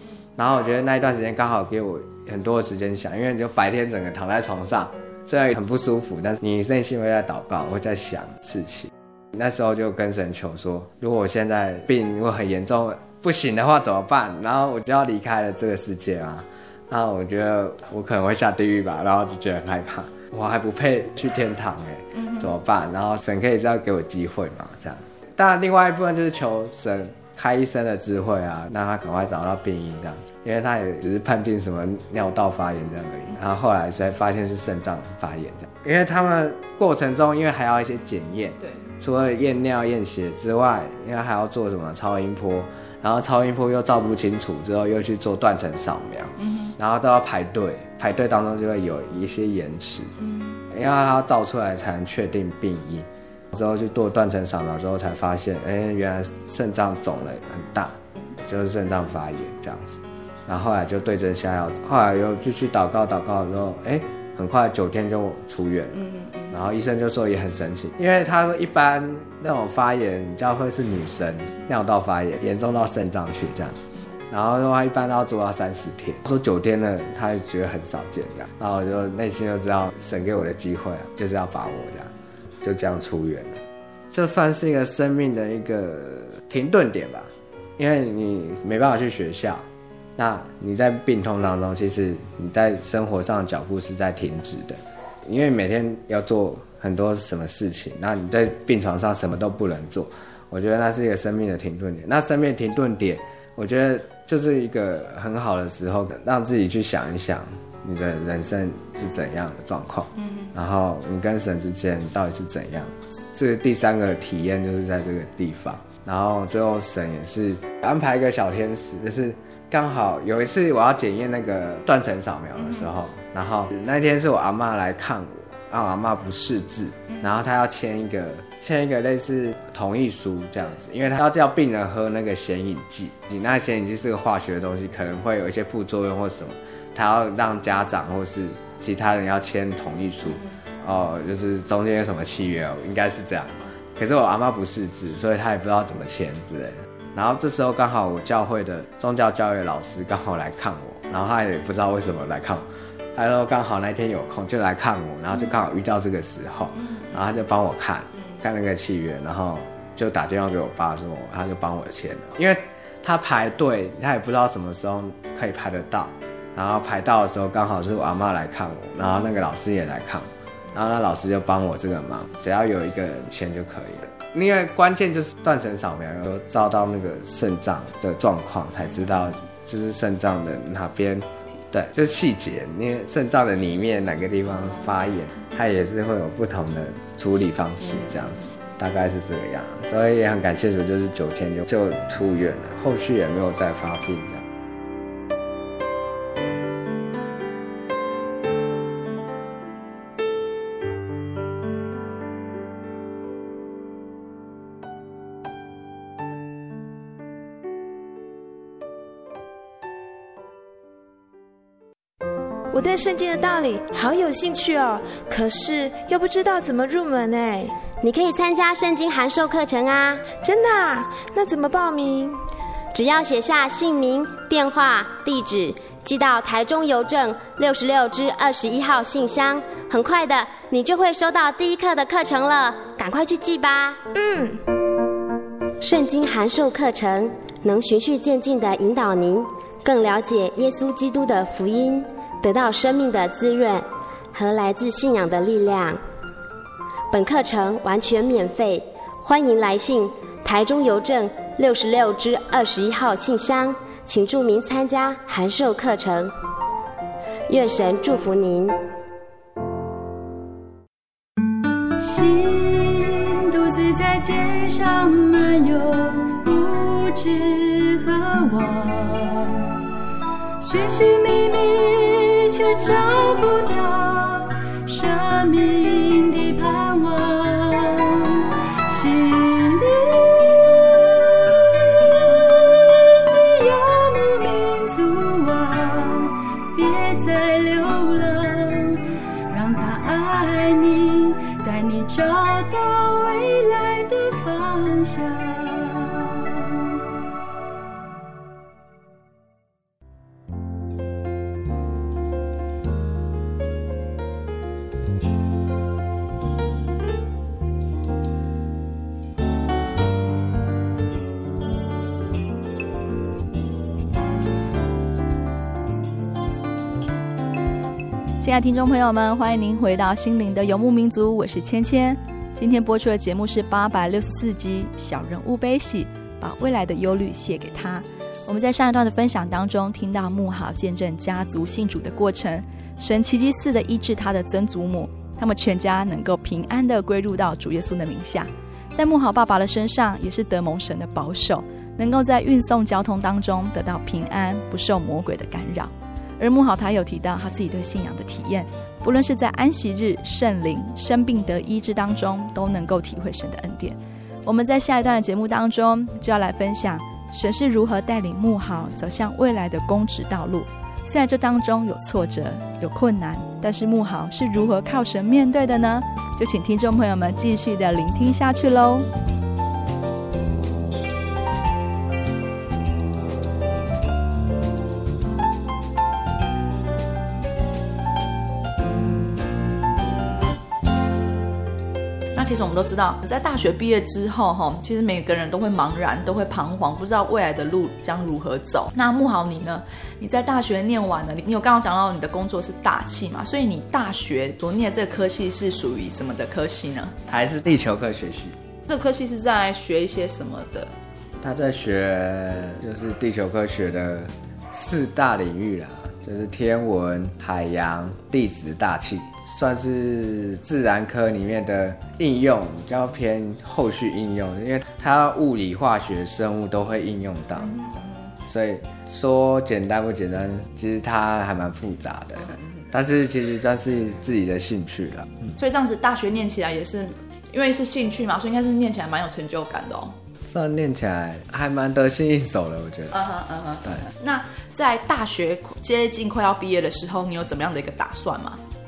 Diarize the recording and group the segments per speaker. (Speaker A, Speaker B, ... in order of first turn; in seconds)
Speaker A: 0.4-50.1, 50.7-89.7, 90.2-194.4, 397.3-398.6, 401.4-425.5, 430.4-433.2
Speaker B: 22.1-22.5, 46.4-46.7, 50.2-50.6, 66.1-66.5, 318.4-369.1, 382.4-397.1, 398.9-400.9, 425.6-430.1, 433.1-438.6
Speaker C: 212.7-217.8, 220.3-222.4, 234.1-234.6
Speaker D: 218.0-220.3, 222.9-234.0, 235.8-246.0, 247.1-256.3, 257.5-258.8
Speaker E: 262.0-269.7, 270.6-296.8